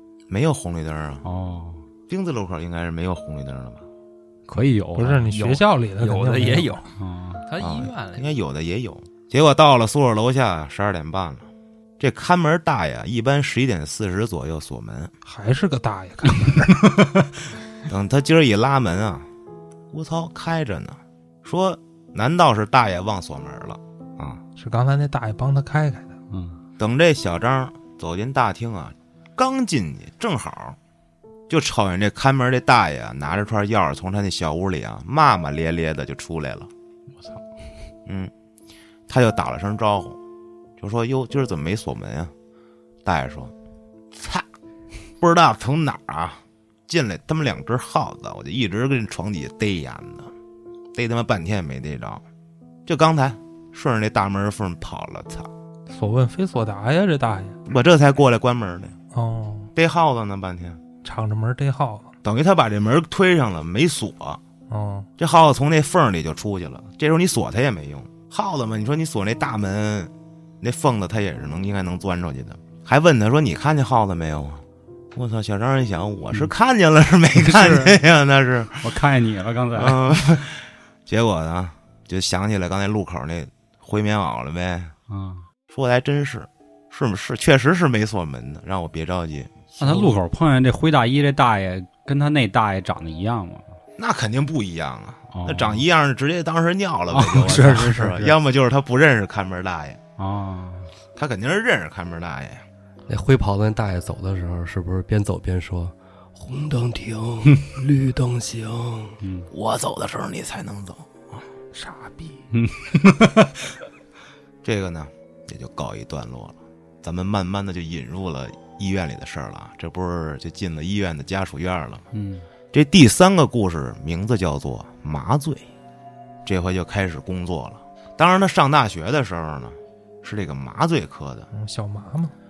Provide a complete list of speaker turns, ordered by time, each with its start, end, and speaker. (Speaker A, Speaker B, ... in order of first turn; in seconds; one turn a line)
Speaker A: 0.3-1.2
Speaker B: 1.2-1.8
Speaker A: 2.1-3.8
Speaker B: 4.5-5.4
Speaker C: 5.0-6.8
Speaker D: 5.3-6.9
Speaker B: 7.0-7.5
Speaker D: 7.5-8.3
Speaker A: 7.6-11.5
Speaker A: 12.0-15.1
Speaker C: 15.2-16.9
Speaker A: 17.9-19.3
Speaker A: 19.9-24.4
Speaker C: 24.6-26.2
Speaker B: 26.3-26.6
Speaker A: 26.8-30.8
Speaker A: 31.5-36.7
Speaker A: 38.1-38.3
Speaker A: 39.1-40.2
Speaker A: 40.8-42.3
Speaker A: 43.0-43.5
Speaker A: 44.1-44.5
Speaker A: 45.2-50.3
Speaker A: 50.9-52.2
Speaker A: 52.9-55.5
Speaker C: 55.9-57.6
Speaker A: 57.7-59.0
Speaker C: 59.1-59.7
Speaker A: 59.8-60.8
Speaker C: 61.0-62.1
Speaker A: 62.2-64.4
Speaker C: 64.7-65.1
Speaker A: 65.2-79.0
Speaker B: 77.4-78.0
Speaker B: 78.8-80.0
Speaker A: 79.8-84.9
Speaker B: 85.1-85.4
Speaker A: 85.7-90.2
Speaker B: 89.8-93.8
Speaker A: 94.0-100.0
Speaker B: 95.3-95.8
Speaker B: 97.1-98.4
Speaker B: 100.2-100.9
Speaker A: 101.2-102.6
Speaker E: 103.1-109.2
Speaker B: 109.2-109.5
Speaker A: 109.5-111.4
Speaker C: 111.7-112.4
Speaker B: 112.5-113.6
Speaker A: 114.6-122.0
Speaker B: 122.1-122.5
Speaker A: 122.7-125.7
Speaker A: 126.5-131.5
Speaker C: 131.5-132.3